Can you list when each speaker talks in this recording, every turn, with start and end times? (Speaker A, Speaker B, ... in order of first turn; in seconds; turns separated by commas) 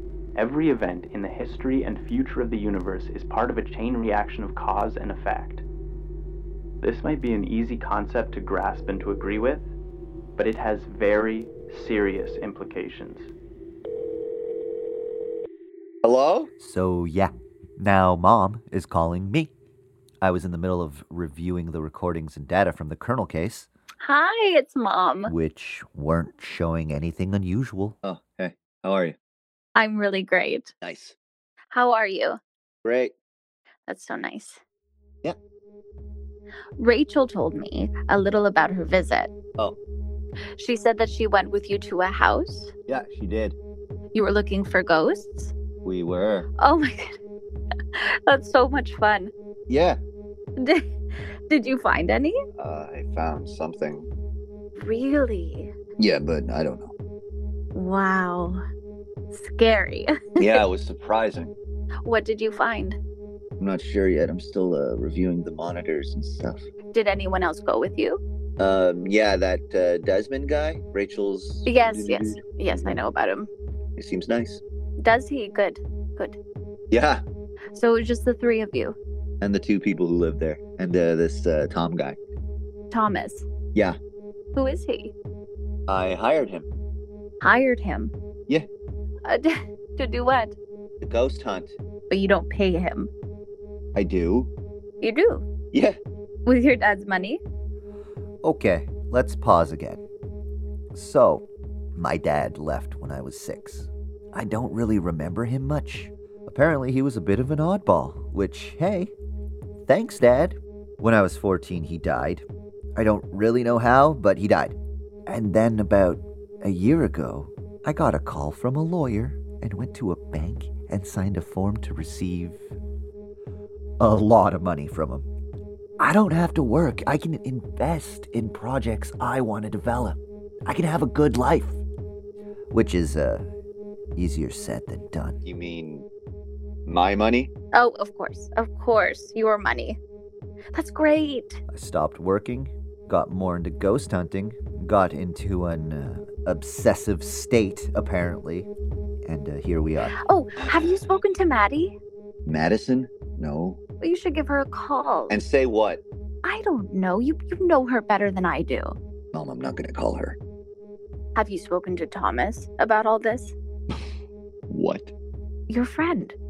Speaker A: 0.3-5.6, Speaker A: 6.8-9.7, Speaker A: 10.3-13.3, Speaker B: 16.0-16.5, Speaker C: 16.6-19.5, Speaker C: 20.2-23.7, Speaker D: 24.0-25.3, Speaker C: 25.2-28.0, Speaker B: 28.0-29.2, Speaker D: 29.8-30.7, Speaker B: 30.8-31.1, Speaker D: 31.7-32.4, Speaker B: 32.8-33.1, Speaker D: 33.9-34.6, Speaker D: 36.8-39.3, Speaker D: 40.6-42.7, Speaker B: 42.9-43.5, Speaker D: 44.1-45.5, Speaker B: 45.8-46.5, Speaker D: 46.6-47.2, Speaker D: 47.9-49.3, Speaker B: 49.7-50.0, Speaker D: 50.6-50.9, Speaker D: 51.5-52.4, Speaker B: 52.6-54.1, Speaker D: 54.8-55.7, Speaker B: 56.0-56.9, Speaker D: 57.7-58.6, Speaker D: 59.3-60.6, Speaker B: 60.4-61.5, Speaker D: 62.0-63.0, Speaker B: 63.6-66.6, Speaker D: 66.9-68.2, Speaker B: 68.6-73.0, Speaker D: 71.6-73.5, Speaker B: 74.0-74.6, Speaker D: 75.0-76.4, Speaker B: 76.9-77.2, Speaker D: 77.7-79.0, Speaker B: 79.4-82.2, Speaker D: 82.9-83.5, Speaker D: 84.5-85.1, Speaker B: 85.9-86.7, Speaker D: 87.4-88.1, Speaker D: 89.3-90.5, Speaker B: 91.0-91.7, Speaker D: 92.1-93.1, Speaker B: 93.9-94.5, Speaker D: 95.0-95.5, Speaker B: 95.7-96.0, Speaker D: 96.5-97.4, Speaker C: 98.4-100.0, Speaker C: 100.9-109.1, Speaker C: 109.9-112.4, Speaker C: 113.0-122.7, Speaker C: 124.0-125.3, Speaker C: 126.0-131.8, Speaker C: 132.7-133.4, Speaker C: 134.2-135.4, Speaker B: 135.4-136.1, Speaker B: 136.8-137.5, Speaker D: 137.7-140.0, Speaker D: 140.7-141.6, Speaker C: 141.7-148.7, Speaker C: 149.2-150.1, Speaker D: 150.2-151.9, Speaker B: 150.6-150.9, Speaker B: 152.4-153.8, Speaker D: 154.0-155.4, Speaker B: 155.3-156.0, Speaker D: 156.4-158.9, Speaker B: 159.3-160.4, Speaker D: 161.3-163.5, Speaker B: 164.7-165.1, Speaker D: 165.7-166.3